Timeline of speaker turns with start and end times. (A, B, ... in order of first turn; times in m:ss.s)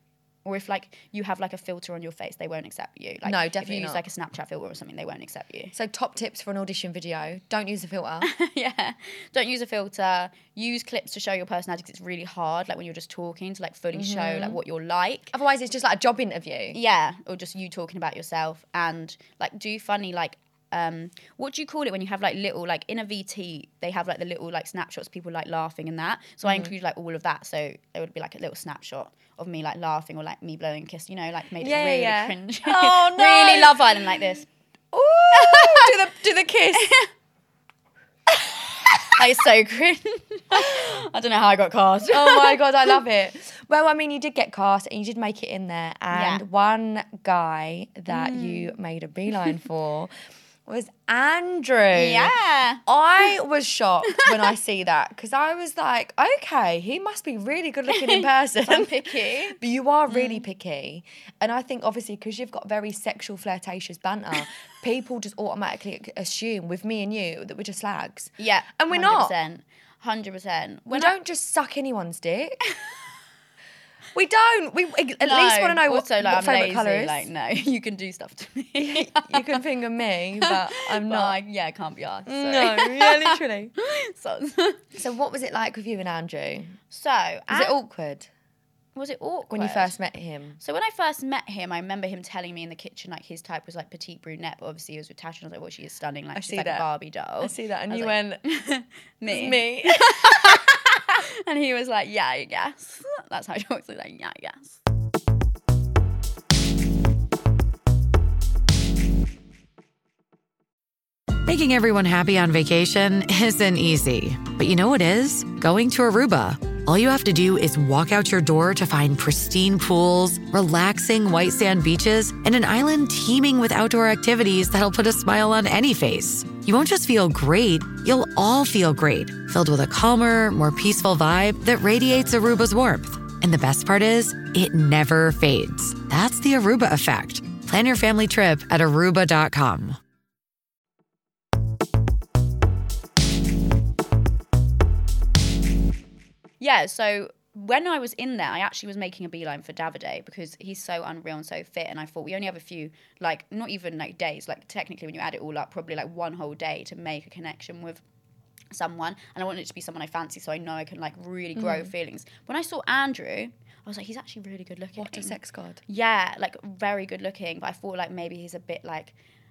0:00.4-0:05.7 A
0:03.2-0:04.0 B
0:05.7-0:08.3 B
0:08.2-0:15.3 A
0:13.9-0:14.6 B
0:15.3-0:16.8 B
0:16.7-0:34.5 A
0:26.4-0:26.7 B
0:31.6-0:34.3 B
0:34.9-0:37.0 B
0:35.3-0:35.9 A
0:36.8-0:37.1 A
0:39.1-0:43.0 A
0:42.1-0:50.1 B
0:46.1-0:46.4 A
0:48.1-0:48.7 A
0:50.7-0:52.4 B
0:51.9-0:52.8 A
0:52.9-1:09.4 B
0:57.9-1:00.4 A
1:08.4-1:11.1 A
1:10.9-1:12.6 B
1:14.1-1:17.3 B
1:15.2-1:19.6 A
1:18.8-1:21.4 B
1:20.4-1:24.8 A
1:22.3-1:23.7 B
1:25.0-1:26.8 B
1:26.9-1:27.8 A
1:27.5-1:28.3 B
1:29.0-1:30.0 A
1:29.5-1:30.6 B
1:30.6-1:44.8 A
1:36.4-1:36.9 B
1:37.4-1:38.4 B
1:39.3-1:40.6 B
1:51.4-2:20.0 C
2:26.6-2:38.0 A
2:38.7-2:45.4 A
2:41.6-2:41.9 B
2:45.0-2:45.8 B
2:45.9-2:49.1 A